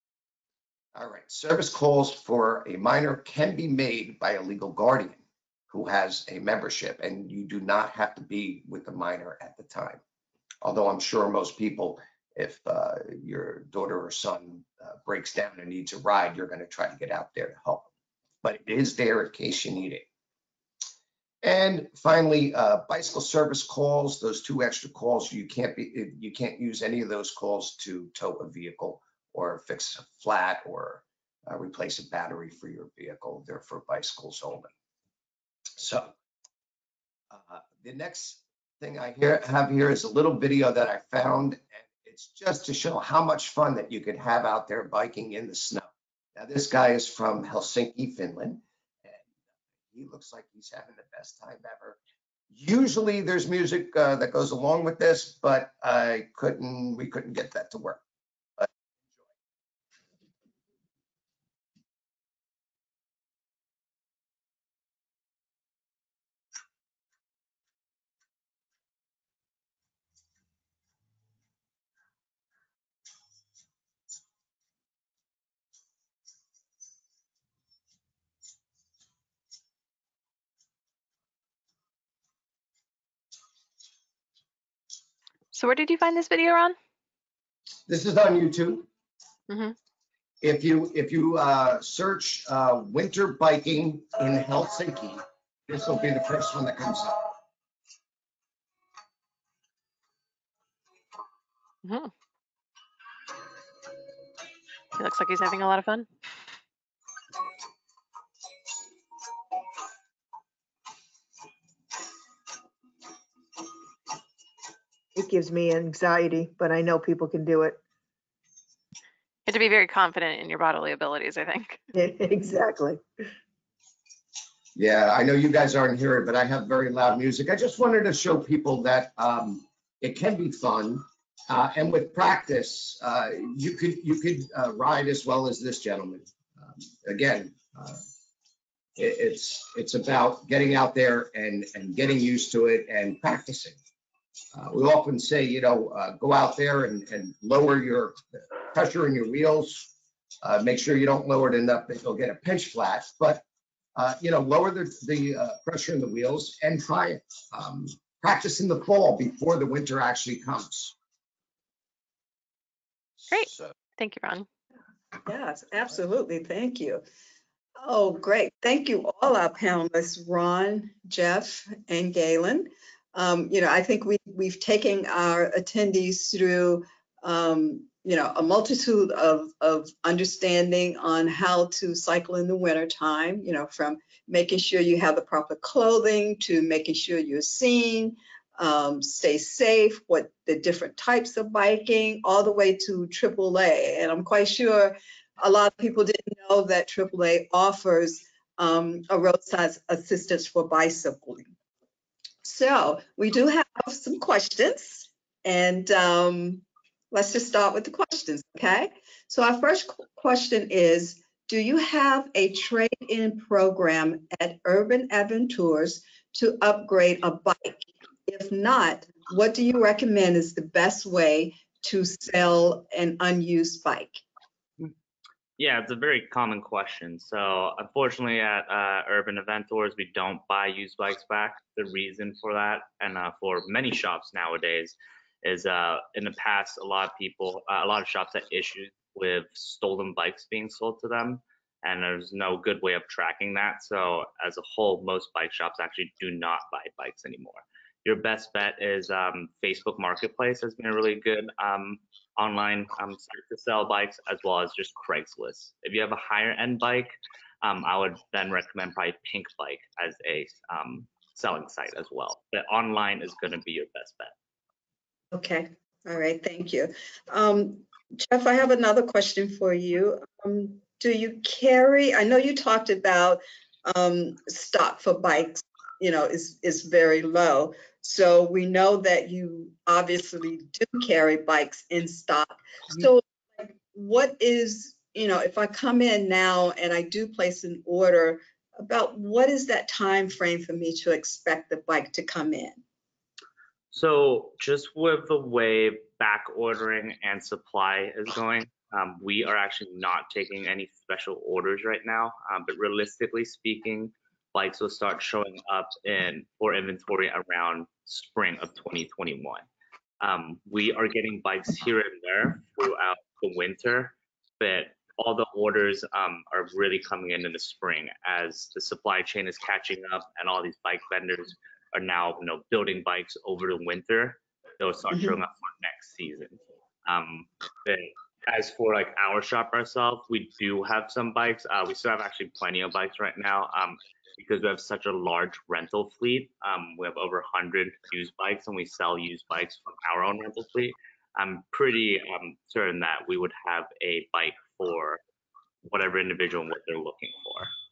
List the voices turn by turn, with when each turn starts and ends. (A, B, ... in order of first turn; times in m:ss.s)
0:00.9-0:10.0 A
0:10.6-0:17.9 A
0:18.4-0:20.1 A
0:21.4-0:34.7 A
0:35.8-0:36.1 A
0:37.3-0:49.2 A
0:49.9-0:52.0 A
0:52.5-0:58.0 A
0:58.6-0:59.3 A
1:25.5-1:26.8 B
1:27.9-1:28.9 A
1:29.5-1:29.7 B
1:30.4-1:37.3 A
1:41.8-1:42.1 B
1:45.0-1:46.1 B
1:55.2-1:57.8 C
1:59.5-2:01.8 B
2:01.9-2:03.0 C
2:04.8-2:18.0 A
2:19.0-2:23.8 A
2:24.5-2:29.9 A
2:30.4-2:33.4 A
2:34.0-2:41.0 A
2:43.2-2:43.7 A
2:43.3-2:44.5 B
2:45.2-2:47.0 D
2:47.8-3:21.5 D
3:22.4-3:44.2 D
3:45.6-4:24.3 E
4:25.3-4:52.8 D
4:53.9-5:09.7 E
5:10.2-5:45.2 E
5:45.8-5:47.7 E